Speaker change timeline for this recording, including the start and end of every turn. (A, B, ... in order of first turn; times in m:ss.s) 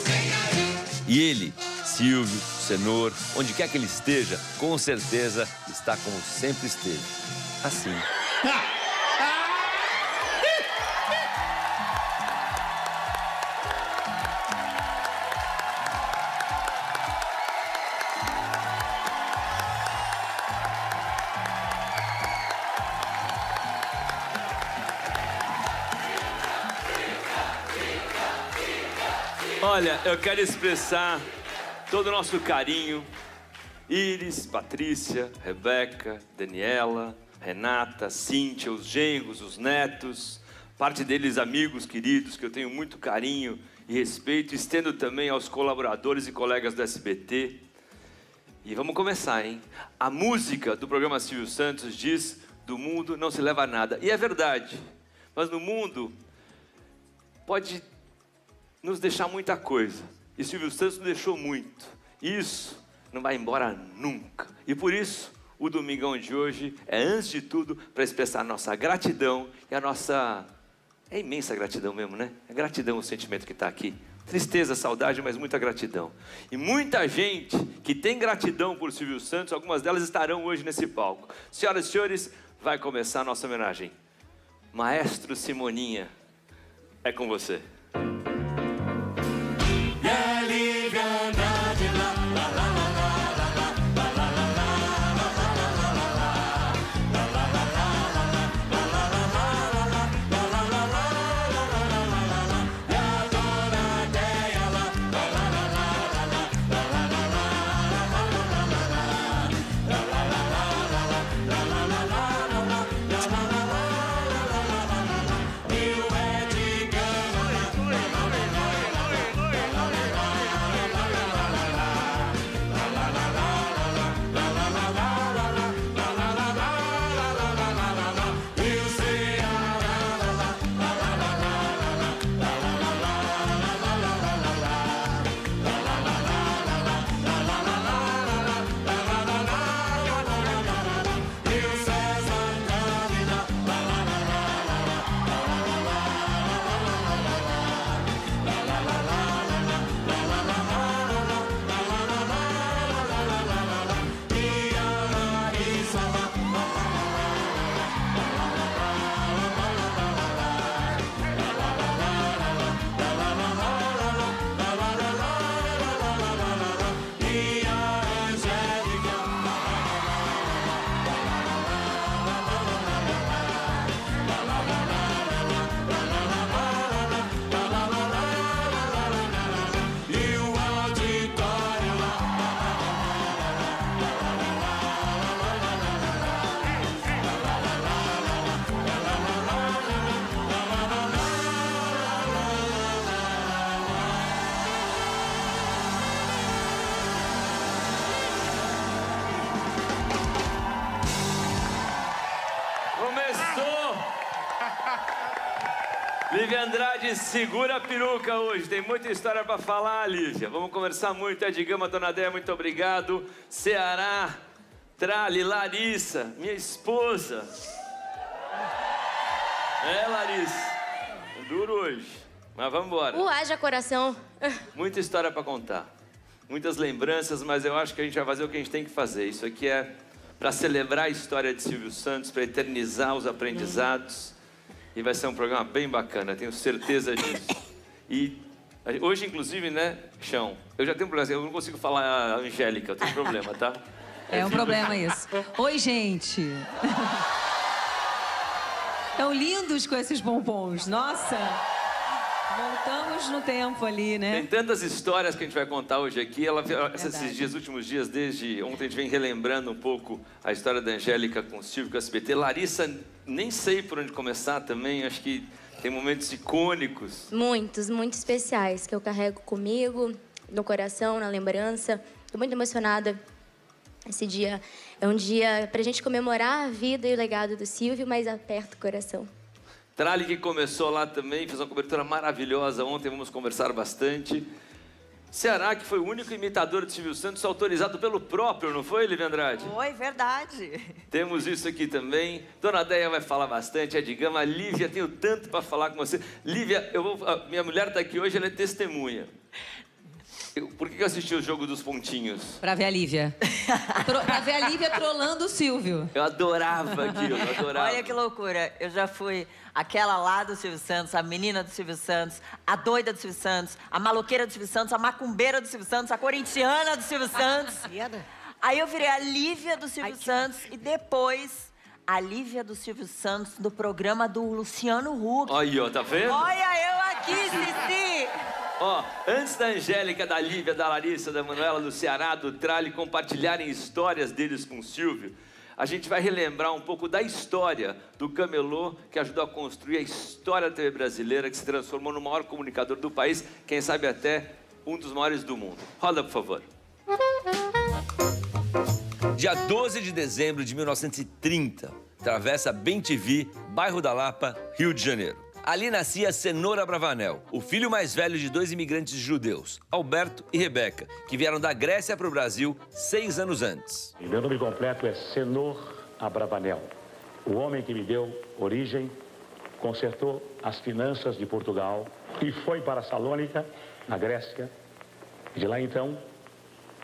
0:01.0-0:08.0 A
0:29.6-0:31.2 A
0:31.9-0:33.0 A
0:33.9-0:47.5 A
0:48.6-0:54.7 A
0:55.4-0:56.1 A
0:57.5-0:57.8 A
0:58.8-1:10.4 A
1:11.1-1:23.9 A
1:24.7-1:26.0 A
1:27.0-1:27.6 A
3:23.0-3:24.0 A
3:26.3-3:34.4 A
3:35.0-3:37.5 A
3:39.8-3:40.7 A
3:41.4-3:43.2 A
3:43.1-3:44.6 B
3:44.8-3:45.8 A
3:46.5-3:49.8 A
3:50.4-3:54.3 A
3:55.0-3:57.4 A
3:58.9-4:03.7 A
4:04.3-4:07.2 C
4:04.3-4:04.9 A
4:09.2-4:11.6 C
4:12.5-4:14.5 C
4:14.3-4:25.2 A
4:16.9-4:17.4 C
4:25.9-4:27.2 A
4:27.3-4:33.2 B
4:34.1-4:39.3 B
4:40.0-4:44.4 A
4:45.3-4:49.7 A
4:49.6-4:50.9 D
4:51.1-4:59.2 A
5:00.6-5:02.5 A
5:02.6-5:03.3 C
5:04.0-5:04.4 D
5:04.0-5:06.1 C
5:06.1-5:08.1 A
5:07.6-5:18.0 D
5:18.6-5:25.6 D
5:25.5-5:26.5 A
5:26.3-5:28.3 D
5:28.8-5:46.6 A
5:49.3-6:04.1 A
6:04.2-6:06.9 E
6:07.4-6:09.1 E
6:09.8-6:14.7 E
6:15.5-6:16.2 E